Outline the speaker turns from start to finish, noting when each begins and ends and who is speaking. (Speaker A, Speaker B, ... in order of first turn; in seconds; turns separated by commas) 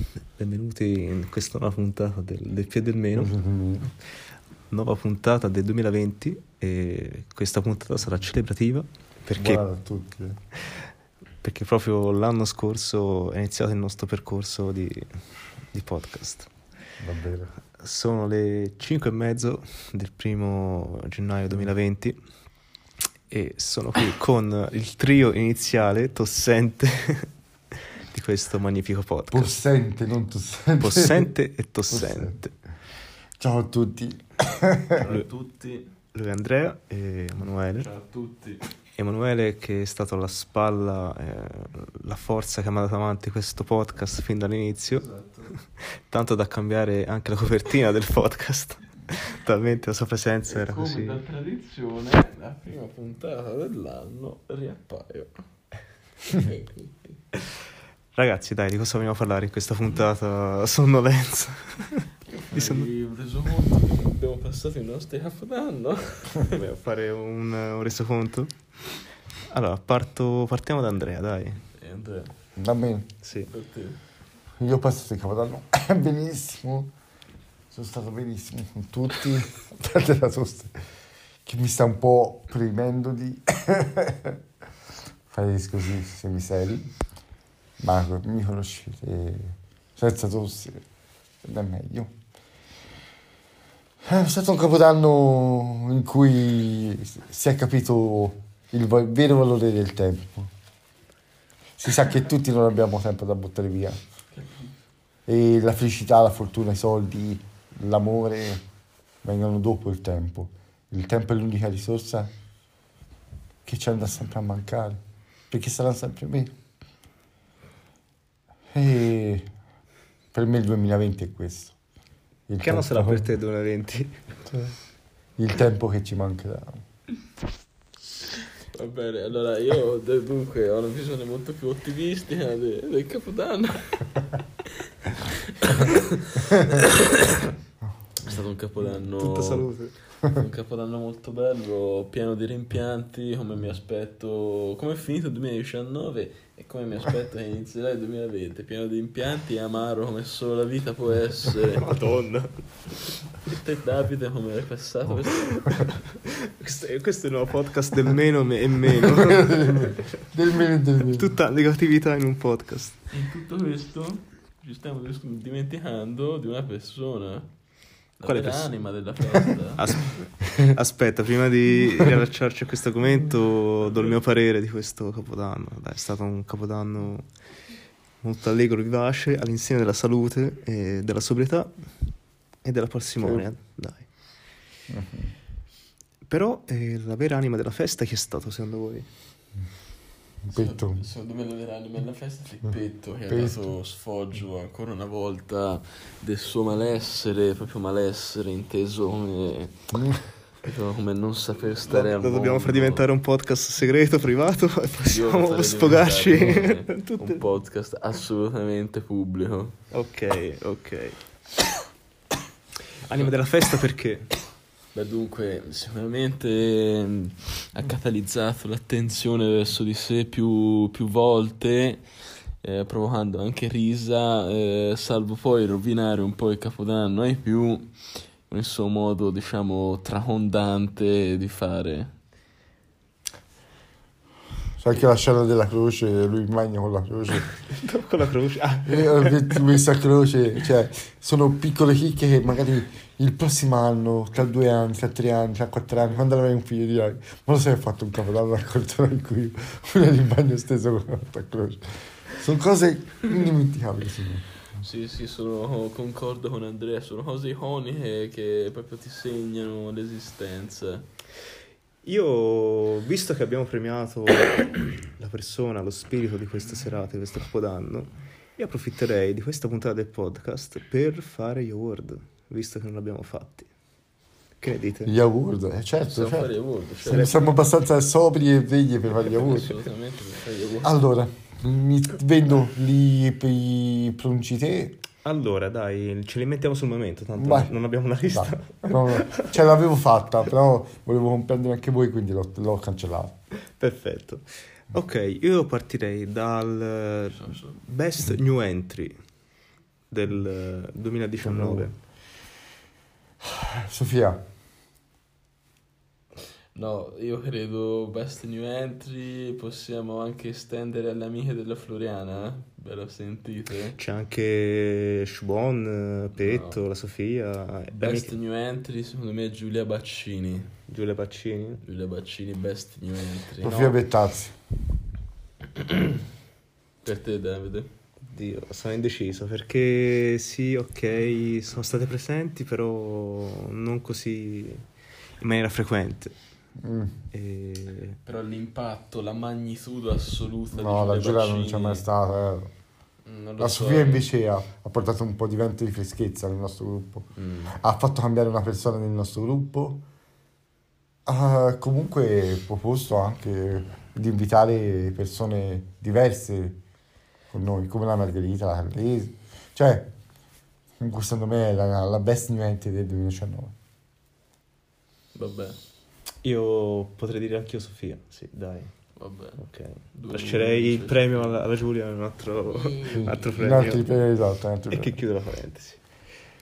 Speaker A: 0.3-3.3, Speaker B: 3.1-3.9, Speaker A: 4.7-9.6, Speaker B: 9.3-10.4, Speaker A: 11.4-15.1, Speaker A: 15.7-16.5, Speaker B: 17.0-17.5, Speaker A: 17.8-22.2, Speaker A: 23.3-27.3, Speaker A: 28.0-29.5, Speaker B: 29.3-31.3, Speaker A: 30.8-32.5, Speaker B: 31.9-32.4, Speaker B: 33.4-35.0, Speaker C: 35.0-35.9, Speaker A: 36.1-37.9, Speaker C: 37.8-38.6, Speaker A: 39.0-45.1, Speaker C: 44.9-45.5, Speaker A: 46.1-51.2, Speaker C: 50.5-55.4, Speaker C: 56.3-56.9, Speaker A: 58.1-62.9, Speaker C: 62.3-66.6, Speaker A: 66.5-68.5, Speaker A: 69.5-71.6, Speaker C: 71.8-72.3, Speaker B: 72.6-73.1, Speaker A: 73.2-73.5, Speaker C: 73.5-74.0, Speaker B: 74.6-76.9, Speaker B: 77.7-80.7, Speaker B: 81.4-84.4, Speaker B: 85.3-86.9, Speaker B: 87.8-90.8, Speaker B: 91.4-92.1, Speaker B: 94.0-100.5, Speaker B: 101.8-104.0, Speaker C: 104.3-104.7, Speaker B: 105.3-108.6, Speaker B: 109.2-112.3, Speaker B: 113.7-115.0, Speaker B: 115.5-116.5, Speaker B: 118.7-119.5, Speaker B: 120.3-121.7, Speaker B: 122.5-123.3, Speaker A: 122.6-124.2, Speaker B: 125.4-126.8, Speaker C: 128.4-137.5, Speaker C: 138.2-139.6, Speaker A: 139.0-139.9, Speaker C: 140.2-151.9, Speaker A: 151.6-153.4, Speaker C: 153.4-155.8, Speaker A: 155.7-160.1, Speaker B: 159.2-161.3, Speaker A: 161.1-163.0, Speaker C: 163.1-167.5, Speaker C: 168.2-169.9, Speaker A: 168.2-168.7, Speaker A: 169.3-177.2, Speaker A: 178.2-181.7, Speaker A: 182.6-184.1, Speaker B: 184.9-185.3, Speaker A: 186.3-189.1, Speaker B: 190.5-191.0, Speaker C: 190.5-199.9, Speaker B: 193.3-193.7, Speaker B: 199.9-200.2, Speaker C: 200.5-203.1, Speaker A: 201.8-207.4, Speaker C: 205.0-209.8, Speaker A: 209.9-211.2, Speaker A: 213.0-214.3, Speaker C: 214.9-222.0, Speaker C: 222.6-227.9, Speaker C: 228.5-232.1, Speaker B: 234.8-237.5, Speaker A: 237.7-239.6, Speaker B: 238.8-254.5, Speaker C: 254.7-261.1, Speaker A: 262.0-273.7, Speaker A: 274.6-275.1, Speaker B: 275.1-276.5, Speaker C: 276.1-277.3, Speaker B: 277.0-279.8, Speaker A: 277.0-277.5, Speaker C: 279.3-281.0, Speaker B: 280.8-285.0, Speaker A: 285.2-289.4, Speaker B: 287.4-287.7, Speaker B: 288.3-293.3, Speaker A: 293.8-299.1, Speaker C: 297.3-297.8, Speaker A: 300.1-301.9, Speaker B: 301.4-301.9, Speaker B: 303.6-304.4, Speaker C: 306.7-314.0, Speaker A: 313.9-318.3, Speaker C: 316.4-316.8, Speaker C: 318.0-320.7, Speaker A: 320.9-321.8, Speaker C: 321.8-323.9, Speaker B: 323.6-324.5, Speaker C: 325.7-326.2, Speaker C: 327.0-327.9, Speaker A: 328.2-334.8, Speaker A: 335.4-336.3, Speaker B: 336.8-337.1, Speaker A: 337.3-338.2, Speaker C: 338.2-342.0, Speaker B: 340.7-342.7, Speaker C: 343.2-344.3, Speaker B: 343.6-350.0, Speaker C: 347.3-347.8, Speaker B: 351.2-356.8, Speaker B: 357.5-360.1, Speaker B: 361.0-363.7, Speaker C: 365.3-365.8, Speaker A: 366.4-368.9, Speaker C: 369.2-369.6, Speaker A: 369.6-374.1, Speaker C: 370.1-371.5, Speaker C: 372.7-373.4, Speaker B: 373.1-375.2, Speaker A: 374.9-376.0